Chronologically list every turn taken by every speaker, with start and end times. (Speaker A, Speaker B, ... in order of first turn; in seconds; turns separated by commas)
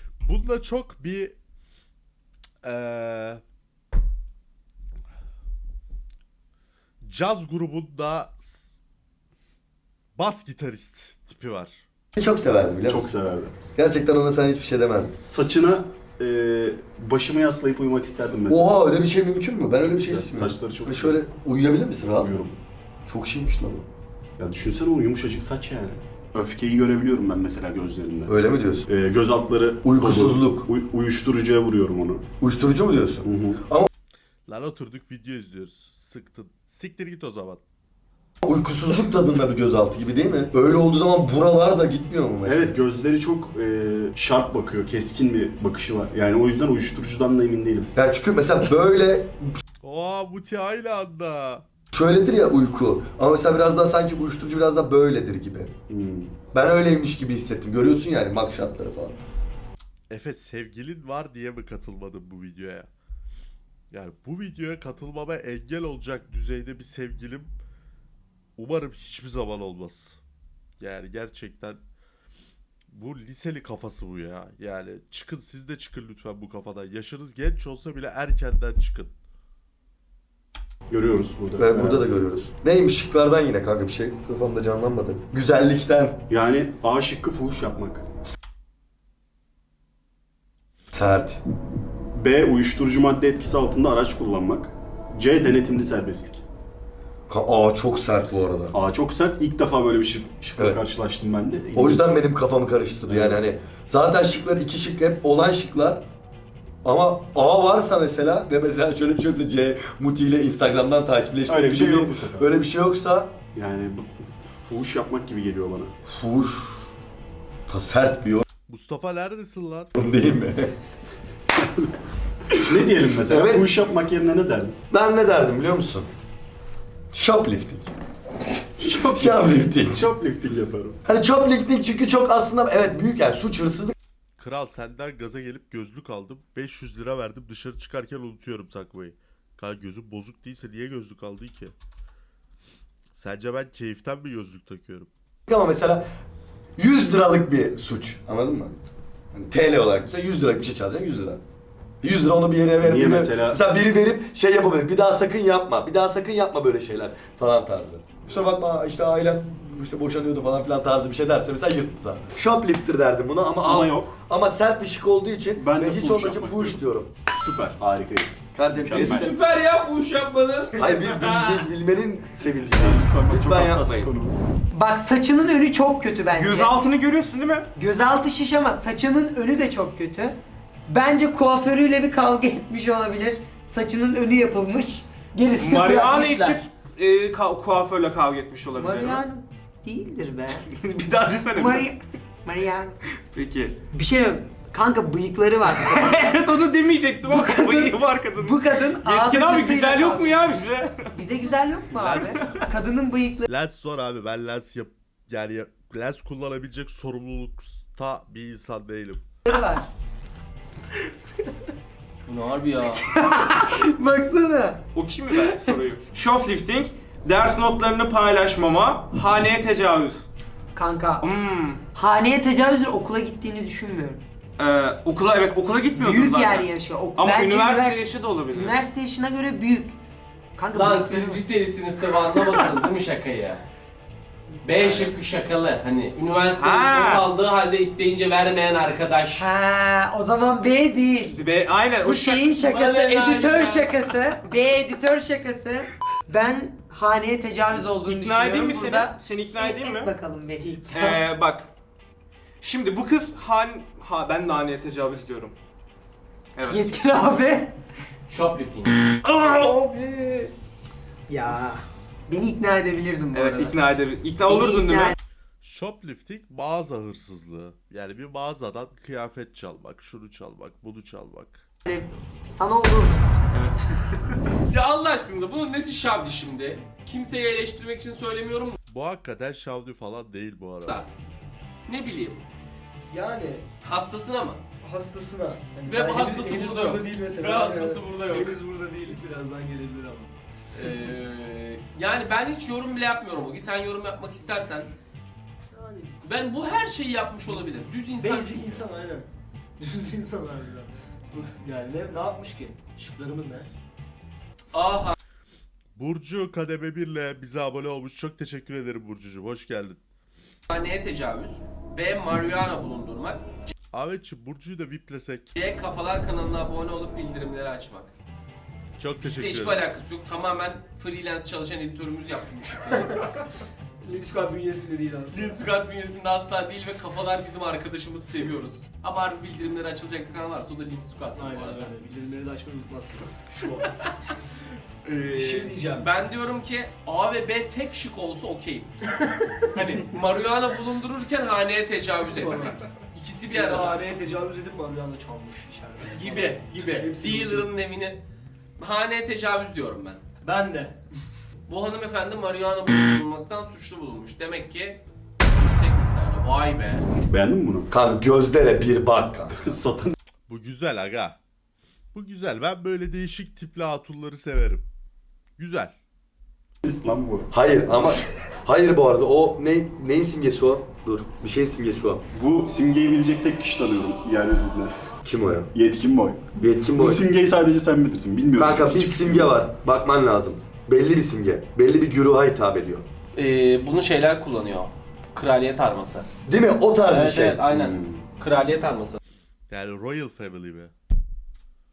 Speaker A: 0.2-1.4, Speaker A: 2.6-3.4, Speaker A: 7.0-8.7, Speaker A: 10.2-11.8, Speaker B: 12.2-13.1, Speaker C: 12.9-13.6, Speaker B: 13.7-15.1, Speaker C: 15.2-18.7, Speaker B: 18.5-22.3, Speaker C: 20.0-21.2, Speaker C: 22.2-22.6, Speaker B: 23.1-23.9, Speaker C: 24.4-28.3, Speaker B: 28.3-28.9, Speaker C: 28.9-32.3, Speaker B: 29.8-30.7, Speaker B: 32.4-33.9, Speaker C: 33.2-33.6, Speaker A: 34.5-37.6, Speaker B: 38.4-42.8, Speaker C: 42.5-47.9, Speaker B: 48.0-49.6, Speaker A: 49.8-51.7, Speaker B: 51.9-55.7, Speaker C: 55.9-56.4, Speaker B: 56.5-59.2, Speaker A: 60.1-62.9, Speaker A: 63.9-67.5, Speaker A: 68.6-70.2, Speaker A: 70.8-71.8, Speaker A: 72.9-79.1, Speaker C: 80.9-82.1, Speaker B: 81.6-86.2, Speaker C: 86.3-88.1, Speaker B: 90.9-91.4, Speaker C: 92.1-96.4, Speaker B: 97.3-98.8, Speaker C: 98.7-102.1, Speaker B: 101.8-106.0, Speaker C: 103.1-103.4, Speaker B: 106.8-113.4, Speaker C: 111.5-112.5, Speaker C: 113.5-116.0, Speaker B: 116.1-116.9, Speaker B: 117.7-118.5, Speaker A: 118.7-119.9, Speaker B: 120.0-120.7, Speaker C: 121.6-121.9, Speaker C: 122.5-124.8, Speaker B: 123.2-123.7, Speaker B: 124.9-126.1, Speaker B: 127.1-127.9, Speaker B: 128.8-130.1, Speaker C: 128.8-131.0, Speaker B: 131.1-134.0, Speaker A: 134.4-141.7, Speaker A: 143.1-145.1, Speaker B: 145.5-146.0, Speaker B: 146.8-148.8, Speaker B: 149.3-151.4, Speaker B: 152.0-167.1, Speaker C: 152.8-153.6, Speaker C: 163.6-164.1, Speaker C: 165.6-169.3, Speaker B: 168.6-169.4, Speaker D: 168.9-171.7, Speaker B: 170.8-174.1, Speaker C: 172.4-174.4, Speaker E: 174.7-176.7, Speaker F: 176.4-177.7, Speaker E: 177.8-180.4, Speaker E: 180.9-186.6, Speaker F: 185.6-189.2, Speaker E: 188.8-190.7, Speaker F: 190.7-191.9, Speaker E: 191.6-193.0, Speaker F: 193.3-193.8, Speaker E: 193.9-196.5, Speaker F: 195.7-201.2, Speaker E: 197.2-200.6, Speaker E: 201.1-203.5, Speaker A: 202.0-202.5, Speaker A: 203.5-209.2, Speaker E: 209.5-209.9, Speaker D: 212.2-213.0, Speaker E: 213.0-214.8, Speaker F: 214.9-220.3, Speaker E: 220.8-221.3, Speaker F: 221.2-221.8, Speaker E: 221.9-224.2, Speaker F: 224.6-228.8, Speaker E: 226.0-230.0, Speaker E: 230.6-231.4, Speaker D: 230.7-233.6, Speaker D: 234.6-239.5, Speaker F: 236.6-237.3, Speaker E: 239.4-241.4, Speaker F: 241.3-242.6, Speaker E: 242.0-251.2, Speaker D: 242.6-244.1, Speaker F: 248.0-250.1, Speaker F: 250.9-251.7, Speaker F: 252.6-255.6, Speaker F: 256.6-257.0, Speaker E: 256.6-257.8, Speaker D: 258.3-259.0, Speaker F: 259.2-260.5, Speaker E: 261.3-261.6, Speaker E: 262.3-263.8, Speaker F: 263.3-265.2, Speaker E: 264.4-265.2, Speaker A: 265.6-271.6, Speaker E: 271.9-273.3, Speaker F: 273.5-274.4, Speaker D: 274.7-278.8, Speaker A: 278.9-281.0, Speaker D: 281.9-282.5, Speaker G: 283.1-283.7, Speaker D: 283.8-284.6, Speaker G: 284.8-290.3, Speaker D: 285.9-288.6, Speaker D: 290.7-294.9, Speaker G: 295.7-296.1, Speaker D: 296.2-298.8, Speaker G: 298.2-299.3, Speaker G: 299.8-303.7, Speaker D: 304.7-305.2, Speaker A: 306.0-310.0, Speaker D: 310.7-313.7, Speaker A: 313.9-315.5, Speaker D: 315.6-318.1, Speaker A: 319.0-319.8, Speaker D: 319.2-323.3, Speaker G: 324.0-325.6, Speaker D: 325.3-331.9, Speaker G: 331.4-334.1, Speaker D: 335.1-338.9, Speaker G: 335.3-336.1, Speaker G: 339.2-339.8, Speaker D: 339.7-344.1, Speaker G: 342.4-342.9, Speaker G: 343.5-347.7, Speaker D: 346.1-348.2, Speaker D: 348.8-350.2, Speaker G: 350.4-351.0, Speaker D: 351.7-357.1, Speaker C: 357.3-357.9, Speaker B: 357.9-359.6, Speaker C: 359.5-360.2, Speaker A: 360.5-361.4, Speaker A: 362.1-364.9, Speaker A: 365.6-365.9, Speaker C: 366.8-367.5, Speaker B: 367.5-372.2, Speaker C: 372.3-374.9, Speaker B: 375.2-375.7, Speaker C: 375.7-379.6, Speaker B: 376.6-377.2, Speaker B: 378.6-383.1, Speaker D: 383.3-386.3, Speaker B: 386.5-387.7, Speaker D: 387.1-389.2, Speaker C: 387.7-388.2, Speaker A: 389.7-390.9